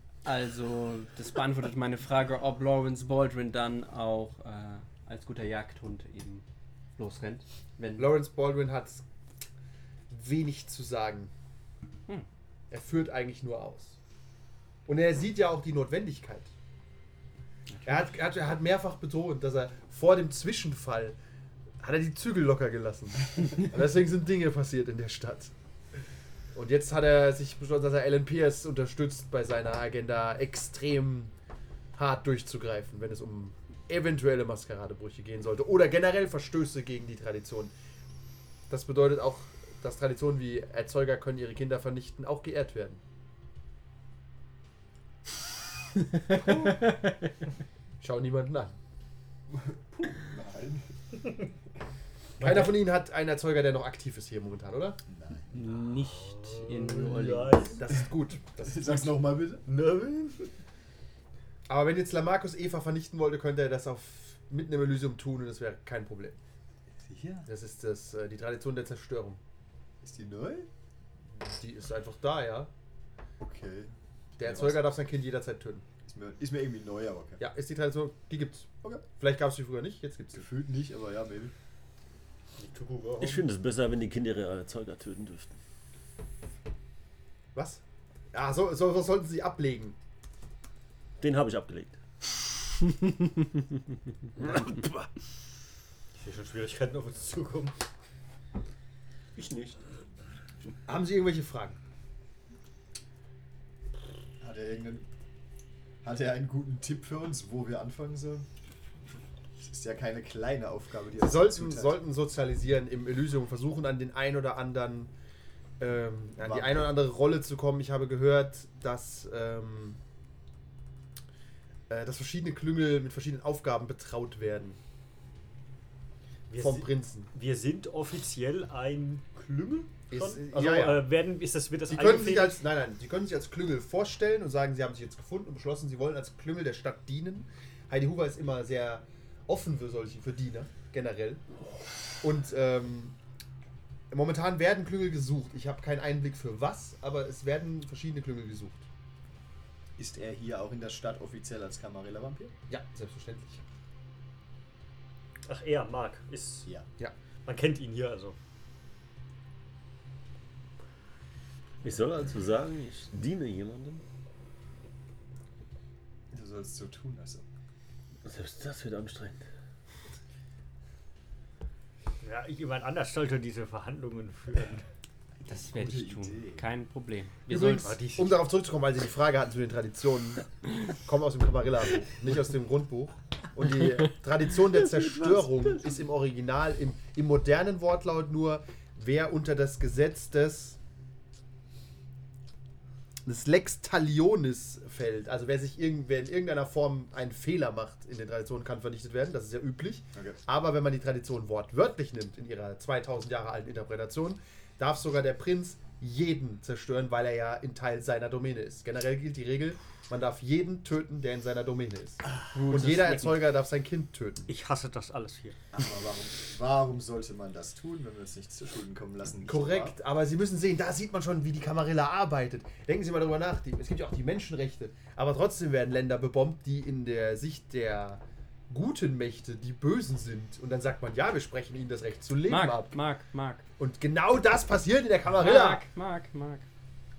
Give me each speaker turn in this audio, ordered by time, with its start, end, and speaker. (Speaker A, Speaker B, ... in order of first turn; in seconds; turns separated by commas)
Speaker A: 0.2-6.4, Speaker A: 7.0-8.1, Speaker B: 8.0-9.0, Speaker B: 10.1-11.3, Speaker B: 12.7-13.9, Speaker B: 14.8-16.5, Speaker B: 17.8-21.1, Speaker B: 21.8-25.5, Speaker B: 26.5-31.3, Speaker B: 31.9-37.7, Speaker B: 38.7-43.0, Speaker A: 46.3-47.0, Speaker B: 48.0-48.8, Speaker C: 49.5-50.9, Speaker B: 52.4-55.0, Speaker C: 55.1-55.5, Speaker A: 55.5-57.8, Speaker D: 56.1-57.8, Speaker B: 57.8-59.1, Speaker C: 58.6-59.6, Speaker D: 59.6-60.5, Speaker B: 61.7-66.4, Speaker C: 67.1-67.5, Speaker B: 67.5-69.4, Speaker C: 70.0-70.7, Speaker B: 71.4-72.7, Speaker C: 73.4-74.8, Speaker B: 74.4-75.8, Speaker C: 76.0-77.4, Speaker B: 77.4-80.5, Speaker C: 80.3-81.5, Speaker D: 82.6-83.4, Speaker E: 83.2-85.5, Speaker B: 87.5-87.8, Speaker B: 88.3-90.0, Speaker E: 91.2-92.4, Speaker E: 94.4-95.0, Speaker D: 96.1-97.8, Speaker E: 99.3-99.8, Speaker B: 100.8-101.8, Speaker C: 104.4-105.0, Speaker C: 106.0-108.5, Speaker C: 109.6-112.0, Speaker B: 111.2-115.1, Speaker B: 115.8-120.0, Speaker C: 116.4-116.9, Speaker B: 121.9-124.8, Speaker D: 126.5-132.6, Speaker B: 126.6-127.3, Speaker B: 130.1-131.1, Speaker B: 131.9-141.4, Speaker B: 142.2-143.2, Speaker B: 144.1-148.8, Speaker C: 150.0-152.5, Speaker B: 152.7-153.6, Speaker D: 155.4-156.7, Speaker D: 157.4-158.4, Speaker E: 161.8-164.0, Speaker C: 166.3-167.4, Speaker E: 168.2-169.4, Speaker D: 172.2-174.8, Speaker A: 175.4-177.9, Speaker C: 175.5-176.7, Speaker B: 177.5-190.8, Speaker D: 177.5-178.3, Speaker B: 193.2-214.5, Speaker A: 212.5-213.5, Speaker D: 214.5-215.6, Speaker C: 215.7-219.9, Speaker B: 219.4-232.9, Speaker A: 232.4-233.6, Speaker B: 233.8-235.8, Speaker A: 235.3-236.6